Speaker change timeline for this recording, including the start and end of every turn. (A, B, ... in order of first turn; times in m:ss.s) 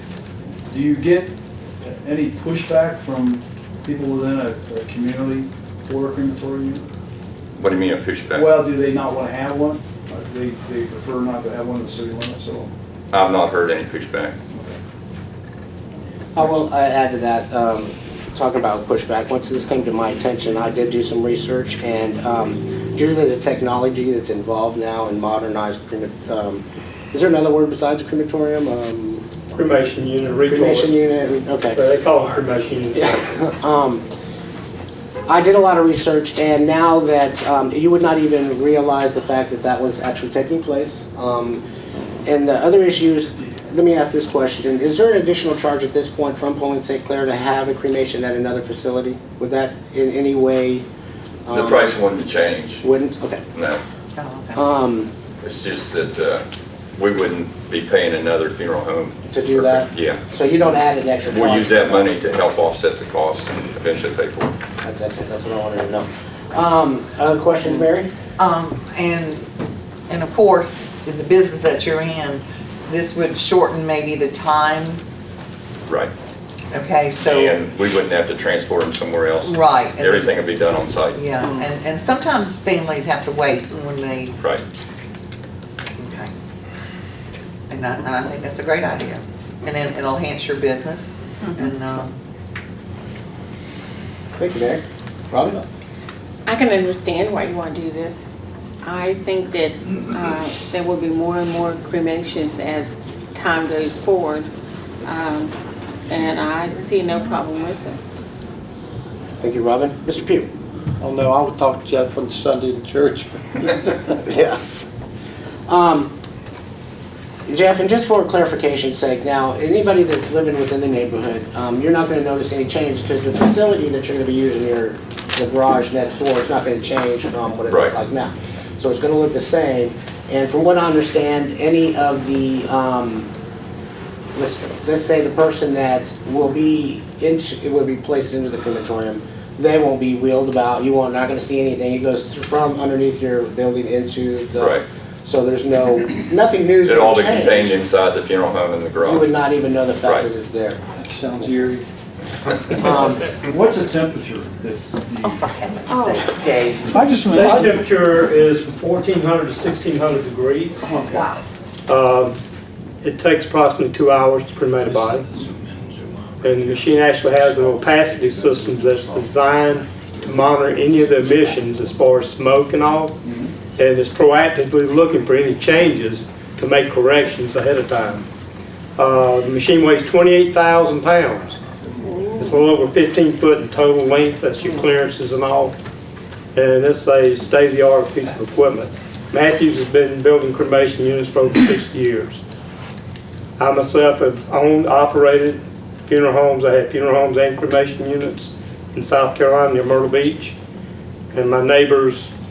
0:00.7-0:06.8 A
0:07.6-0:08.6 B
0:08.3-0:12.7 A
0:13.1-0:14.4 B
0:14.5-0:14.8 A
0:16.4-0:29.3 C
0:29.5-0:30.9 D
0:30.5-0:31.8 C
0:31.7-0:33.2 D
0:33.0-0:34.0 C
0:35.3-0:41.6 C
0:42.3-0:50.8 C
0:51.5-0:52.0 C
0:51.5-0:52.9 B
0:52.8-0:53.4 C
0:53.5-0:53.8 B
0:54.2-0:54.6 E
0:54.5-0:55.1 C
0:55.4-0:56.4 B
0:57.0-1:00.2 B
0:59.3-1:02.1 C
1:01.3-1:04.5 B
1:04.8-1:08.1 C
1:08.4-1:09.5 E
1:10.1-1:15.0 E
1:16.7-1:17.6 E
1:17.2-1:21.3 B
1:19.4-1:20.4 E
1:21.2-1:24.4 E
1:26.0-1:26.3 E
1:27.7-1:32.2 E
1:34.4-1:35.6 C
1:36.5-1:38.2 F
1:38.8-1:44.5 F
1:45.0-1:45.5 F
1:46.1-1:48.0 F
1:49.4-1:50.5 C
1:51.0-1:54.2 G
1:54.2-1:54.6 C
1:55.7-1:56.1 C
1:57.5-2:13.3 C
2:07.7-2:08.0 B
2:14.4-2:27.8 C
2:24.6-2:24.8 B
2:26.8-2:29.3 B
2:29.0-2:30.8 C
2:30.0-2:30.3 B
2:31.0-2:31.8 G
2:32.8-2:33.3 C
2:32.8-2:35.5 A
2:35.2-2:37.3 E
2:35.9-2:36.2 F
2:36.8-2:37.8 A
2:37.3-2:40.9 D
2:40.8-2:41.3 A
2:41.1-2:41.4 E
2:41.9-2:42.4 D
2:43.0-2:45.3 D
2:46.4-2:53.2 D
2:53.2-2:53.6 A
2:53.8-2:58.3 D
2:59.0-3:01.6 D
3:02.1-3:02.5 F
3:02.4-3:05.7 D
3:06.6-3:12.4 D
3:13.6-3:20.6 D
3:21.3-3:22.3 D